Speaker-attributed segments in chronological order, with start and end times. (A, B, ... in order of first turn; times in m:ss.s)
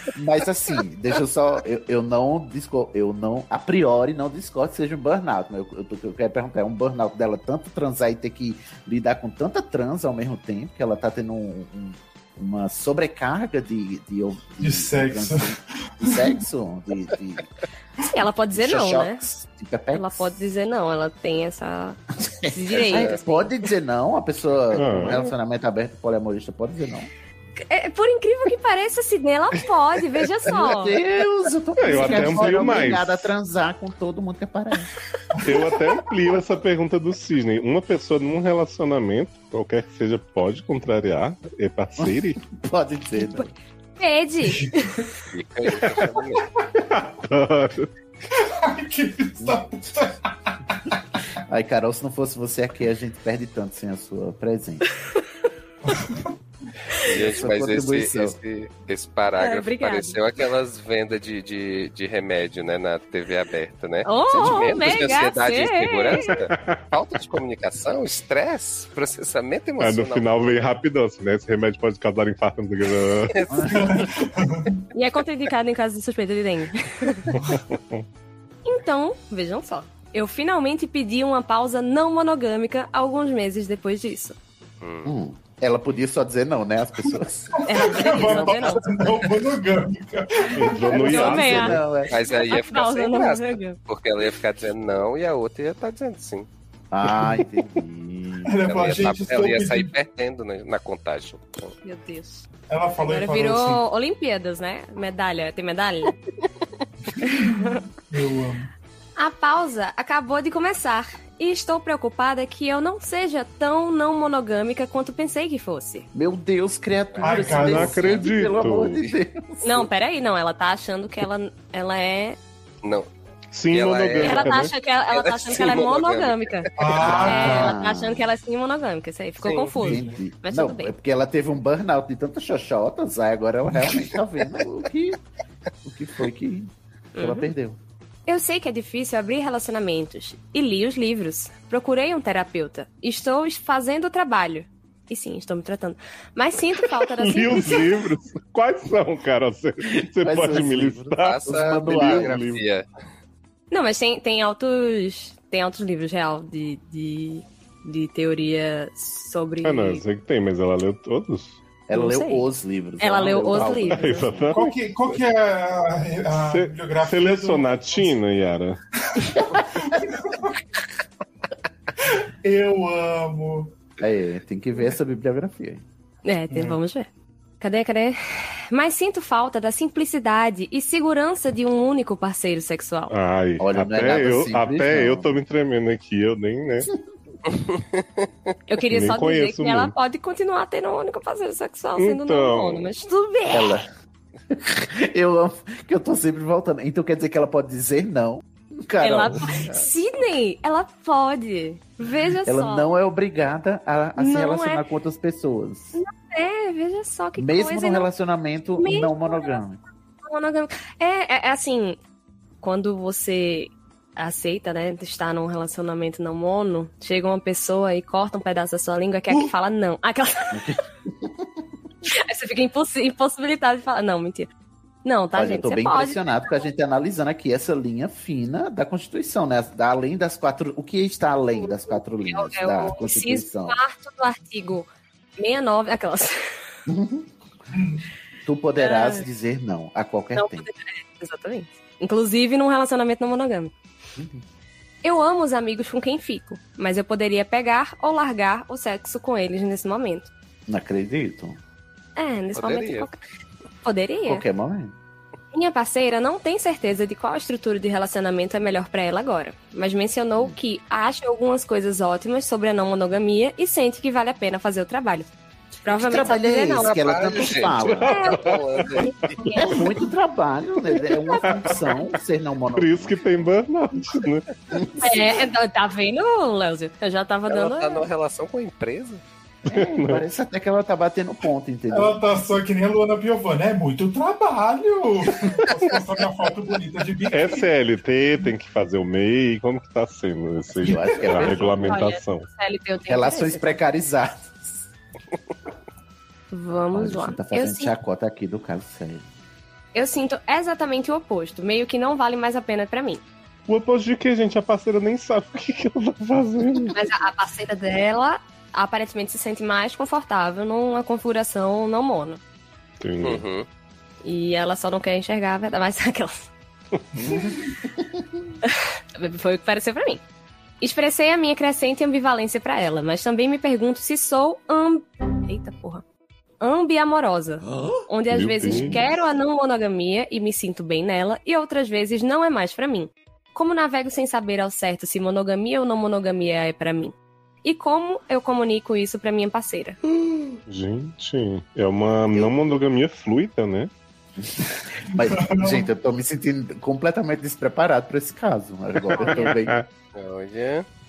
0:00.1-0:17.5 A
0:14.6-0:16.3 B
0:18.1-0:19.2 C
0:18.5-0:20.3 A
0:19.9-0:23.5 C
0:22.2-0:27.1 A
0:22.9-0:23.2 D
0:24.7-0:25.2 E
0:27.6-0:31.0 C
0:30.4-0:34.9 A
0:31.8-0:33.3 E
0:31.9-0:32.7 B
0:35.4-0:42.4 E
0:42.0-0:43.5 A
0:44.0-0:45.0 C
0:44.4-0:44.8 B
0:45.3-0:46.4 D
0:46.8-0:47.9 E
0:48.4-0:50.3 B
0:51.4-0:54.8 A
0:55.8-0:56.3 B
0:57.0-1:10.6 D
0:57.1-0:58.4 A
0:59.4-1:00.2 C
1:04.0-1:06.4 C
1:06.3-1:06.8 E
1:09.8-1:13.4 E
1:13.3-1:13.9 D
1:13.5-1:14.3 A
1:13.7-1:14.8 B
1:14.9-1:17.3 C
1:17.3-1:18.0 E
1:18.6-1:24.4 C
1:24.8-1:25.1 D
1:25.0-1:29.1 A
1:27.6-1:28.9 C
1:27.6-1:30.9 B
1:30.5-1:31.8 E
1:30.8-1:32.1 A
1:30.9-1:33.8 C
1:32.1-1:36.5 D
1:36.9-1:38.6 A
1:38.4-1:39.9 B
1:38.6-1:41.7 D
1:41.8-1:42.4 C
1:42.7-1:43.8 B
1:43.0-1:46.2 C
1:47.2-1:48.7 B
1:47.3-1:47.8 C
1:49.2-1:56.1 C
1:56.1-1:59.9 A
1:57.1-1:57.4 D
1:57.2-1:58.1 B
1:57.5-1:59.0 E
1:59.6-2:02.4 C
2:02.8-2:03.1 D
2:03.5-2:04.7 E
2:03.7-2:06.7 D
2:04.2-2:10.9 C
2:06.8-2:07.8 B
2:07.0-2:08.3 A
2:09.4-2:09.7 E
2:09.8-2:10.2 B
2:09.8-2:15.2 A
2:15.8-2:17.8 A
2:17.1-2:17.5 C
2:18.3-2:28.0 C
2:27.2-2:32.6 E
2:30.2-2:32.4 A
2:31.2-2:32.8 D
2:33.7-2:40.0 C
2:39.6-2:41.6 E
2:41.9-2:44.6 A
2:41.9-2:42.5 C
2:43.0-2:44.4 C
2:43.8-2:45.2 E
2:44.5-2:48.1 B
2:46.3-2:48.8 E
2:49.1-2:50.5 B
2:52.0-2:53.7 B
2:54.0-2:55.8 A
2:56.2-2:57.1 C
2:56.5-2:56.8 B
2:57.6-2:58.2 C
2:58.7-3:03.1 C
3:03.1-3:06.9 E
3:03.6-3:05.4 A
3:07.7-3:08.0 D
3:08.7-3:13.8 C
3:08.8-3:09.9 E
3:12.0-3:12.9 E
3:13.5-3:13.9 A
3:14.5-3:19.9 A
3:19.0-3:22.9 C
3:22.4-3:26.0 A
3:24.2-3:24.8 C
3:25.9-3:28.1 C
3:27.3-3:29.8 A
3:28.8-3:29.6 C
3:30.2-3:32.0 C
3:32.6-3:40.8 C
3:40.5-3:41.5 A
3:42.0-3:44.5 C
3:45.0-3:46.6 C
3:45.3-3:53.8 A
3:51.6-3:56.4 C
3:56.9-3:57.3 A
3:57.7-3:58.1 B
3:58.4-4:00.7 A
3:58.8-3:59.2 C
4:00.4-4:03.7 C
4:04.2-4:04.4 A
4:05.0-4:10.3 C
4:10.7-4:11.6 A
4:12.2-4:13.2 C
4:12.5-4:13.1 D
4:13.8-4:14.4 C
4:14.2-4:14.9 A
4:15.5-4:25.3 C
4:25.8-4:27.1 C
4:25.9-4:28.1 A
4:26.8-4:29.1 D
4:28.0-4:28.4 C
4:28.0-4:29.1 E
4:29.4-4:33.2 A
4:31.4-4:31.7 E
4:32.8-4:34.4 E
4:34.7-4:35.4 A
4:35.0-4:38.0 C
4:37.5-4:39.2 D
4:39.6-4:42.2 A
4:39.7-4:40.2 E
4:41.9-4:47.7 B
4:47.3-4:52.5 E
4:50.8-4:52.0 A
4:51.4-4:53.8 C
4:53.1-4:54.8 A
4:56.5-4:57.9 C
4:56.9-4:59.2 A
4:59.9-5:03.2 C
5:03.7-5:06.9 E
5:06.9-5:12.4 C
5:13.0-5:13.4 E
5:13.2-5:13.7 D
5:14.2-5:16.5 C
5:17.2-5:18.2 A
5:18.6-5:20.2 C
5:20.8-5:26.0 C
5:26.6-5:40.0 C
5:28.3-5:29.1 E
5:28.7-5:29.0 A
5:40.6-5:43.9 E
5:44.4-5:49.8 A
5:45.5-5:45.8 B
5:49.2-5:49.5 C
5:49.4-5:49.8 E
5:50.1-5:50.8 D